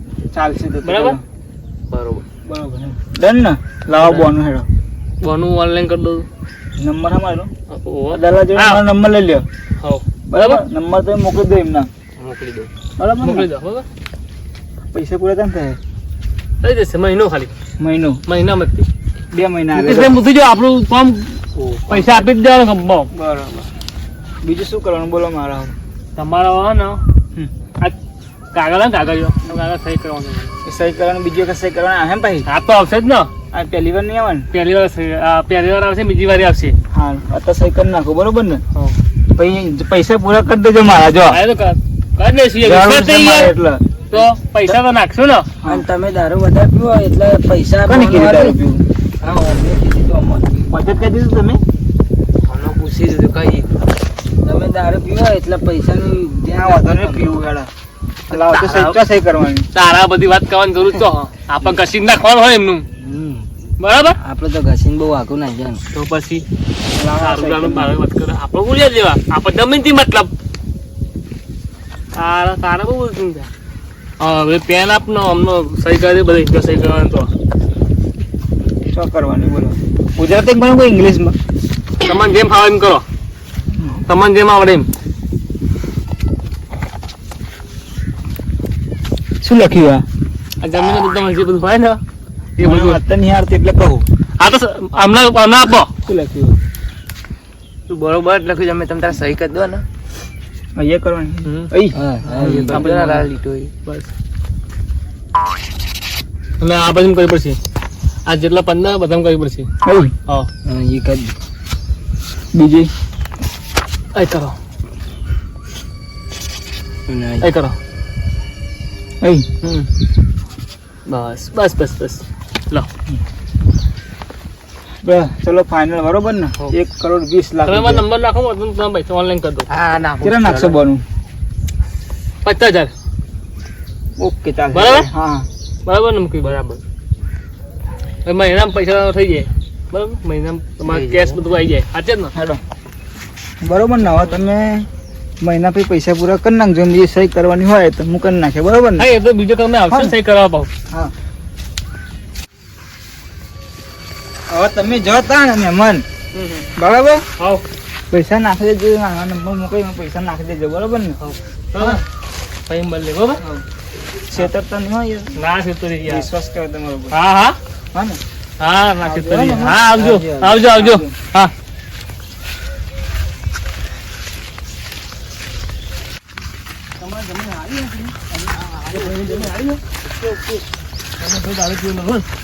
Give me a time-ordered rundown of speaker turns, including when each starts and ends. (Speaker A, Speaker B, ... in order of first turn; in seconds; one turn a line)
Speaker A: 0.3-1.2
Speaker B: 0.8-1.2
Speaker C: 1.9-2.2
Speaker A: 2.4-4.7
Speaker B: 3.9-4.3
Speaker B: 5.2-6.2
Speaker A: 6.8-7.5
Speaker B: 7.7-8.8
Speaker A: 8.1-9.4
Speaker B: 9.8-10.6
Speaker A: 10.3-11.9
Speaker C: 12.2-12.7
Speaker A: 13.0-13.5
Speaker B: 13.2-13.8
Speaker A: 14.9-15.8
Speaker B: 16.6-17.5
Speaker A: 17.8-18.2
Speaker B: 18.3-18.9
Speaker A: 19.3-20.2
Speaker B: 19.7-21.3
Speaker C: 21.6-21.9
Speaker B: 21.9-23.1
Speaker A: 23.1-23.6
Speaker A: 24.4-25.8
Speaker B: 26.2-27.0
Speaker B: 28.5-30.5
Speaker A: 30.6-32.5
Speaker B: 32.5-33.3
Speaker A: 33.5-34.5
Speaker B: 34.5-36.8
Speaker A: 36.9-38.6
Speaker A: 39.4-41.4
Speaker B: 41.3-43.5
Speaker A: 42.6-43.8
Speaker B: 44.1-45.5
Speaker C: 45.6-48.5
Speaker A: 47.8-48.8
Speaker C: 49.2-50.7
Speaker A: 50.7-51.6
Speaker C: 52.5-53.8
Speaker C: 54.4-57.3
Speaker A: 56.5-57.7
Speaker B: 58.3-59.0
Speaker A: 58.3-59.7
Speaker B: 59.7-62.9
Speaker C: 63.0-63.5
Speaker B: 63.8-64.2
Speaker C: 64.2-65.8
Speaker B: 65.9-66.4
Speaker A: 66.9-67.9
Speaker B: 67.2-70.3
Speaker B: 72.1-73.5
Speaker B: 74.2-77.3
Speaker A: 78.9-81.3
Speaker B: 82.0-83.0
Speaker A: 83.7-84.0
Speaker B: 84.1-84.9
Speaker A: 89.4-90.0
Speaker B: 90.6-92.0
Speaker B: 92.6-93.0
Speaker A: 92.6-94.0
Speaker B: 94.4-95.9
Speaker A: 96.0-96.5
Speaker C: 97.9-99.8
Speaker A: 100.8-102.9
Speaker C: 102.0-103.7
Speaker B: 102.3-103.3
Speaker B: 106.6-107.6
Speaker B: 108.2-109.7
Speaker A: 109.8-110.1
Speaker C: 110.7-111.3
Speaker A: 112.5-112.9
Speaker B: 114.1-114.5
Speaker C: 117.1-117.5
Speaker B: 117.4-117.8
Speaker B: 119.6-119.9
Speaker B: 121.1-122.9
Speaker A: 125.0-128.0
Speaker B: 127.7-129.7
Speaker C: 129.7-130.8
Speaker A: 130.2-131.0
Speaker B: 132.4-132.9
Speaker A: 134.2-135.5
Speaker B: 134.7-135.1
Speaker B: 135.8-136.6
Speaker C: 136.4-136.8
Speaker B: 138.2-142.3
Speaker C: 140.9-141.4
Speaker A: 142.3-142.6
Speaker A: 143.6-144.9
Speaker A: 145.4-149.1
Speaker B: 149.0-150.7
Speaker A: 149.9-150.1
Speaker A: 154.5-156.0
Speaker B: 156.3-156.7
Speaker A: 156.8-157.2
Speaker B: 157.4-157.6
Speaker A: 158.1-161.2
Speaker B: 161.2-162.0
Speaker B: 162.7-163.4
Speaker A: 163.4-163.6
Speaker A: 164.3-165.3
Speaker B: 165.4-166.3
Speaker A: 166.1-167.1
Speaker B: 167.1-167.6
Speaker A: 167.9-168.2
Speaker B: 168.6-171.5
Speaker A: 169.0-171.1
Speaker B: 177.0-178.2
Speaker C: 178.4-179.5
Speaker B: 178.9-179.8
Speaker C: 180.2-180.6
Speaker B: 181.2-182.2